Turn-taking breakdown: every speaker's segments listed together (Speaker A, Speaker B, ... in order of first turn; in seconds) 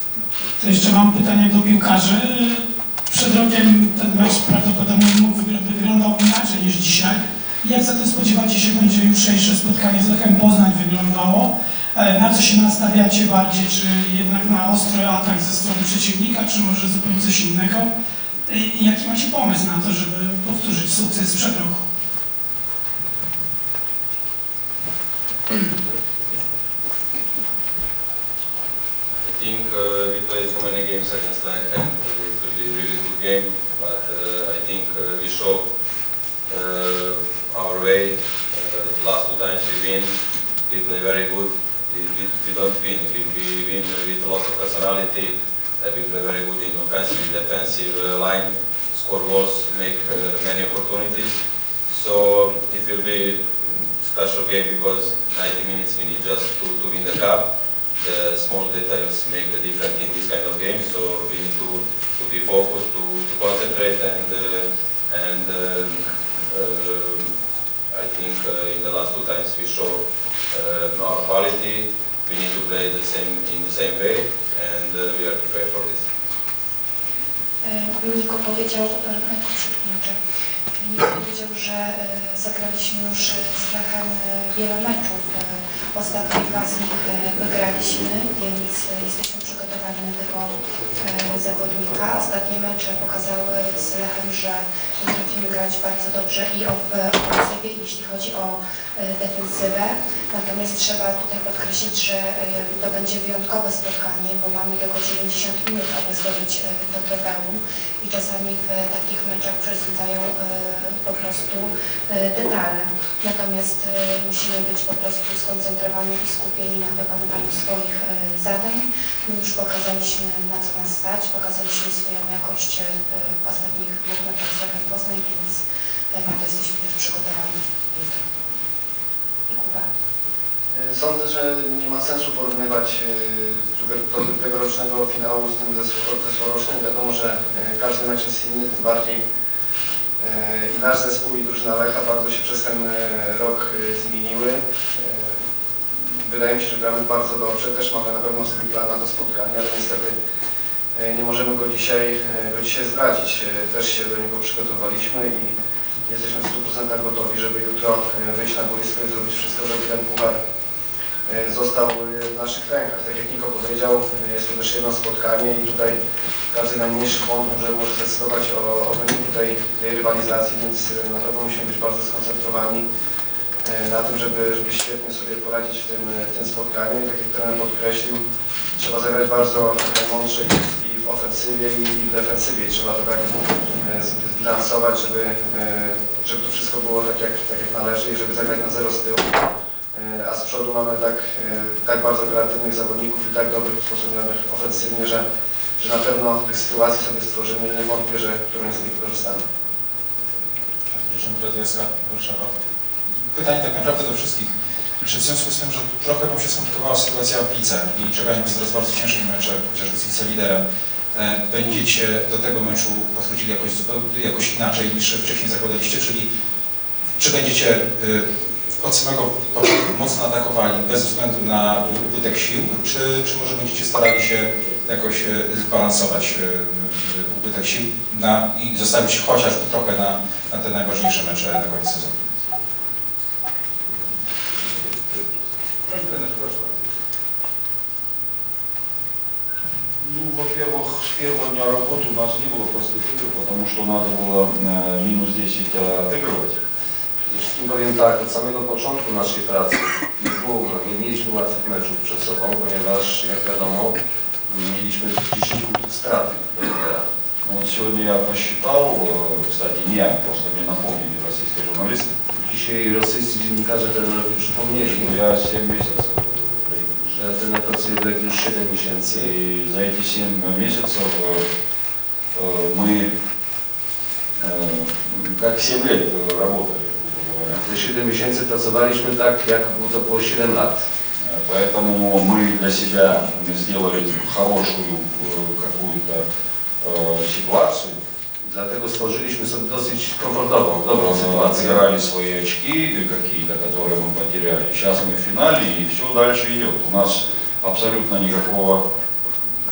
Speaker A: 0.6-17.9, 18.5-21.8
Speaker B: 29.4-35.6, 36.5-40.1, 40.7-57.5, 58.0-67.3, 67.9-76.1
Speaker C: 77.6-80.2, 80.8-128.2, 129.5-129.9
Speaker D: 130.7-139.2, 140.2-145.3, 146.2-150.1, 150.9-155.6, 156.1-160.4, 161.3-166.0, 166.5-172.8, 173.6-178.2, 178.7-189.4, 189.9-195.2, 195.8-199.4
Speaker E: 200.9-202.5, 203.3-204.5, 205.0-210.6, 211.1-216.3, 217.2-218.2, 218.8-232.2
Speaker F: 235.9-236.4, 240.0-246.6, 257.4-262.2, 265.0-266.9, 269.1-271.4, 272.3-273.1, 274.4-277.6, 281.2-286.2, 286.8-288.0, 290.9-298.8
Speaker G: 247.3-257.1, 262.3-265.1, 267.0-269.3, 277.6-280.8, 288.4-291.9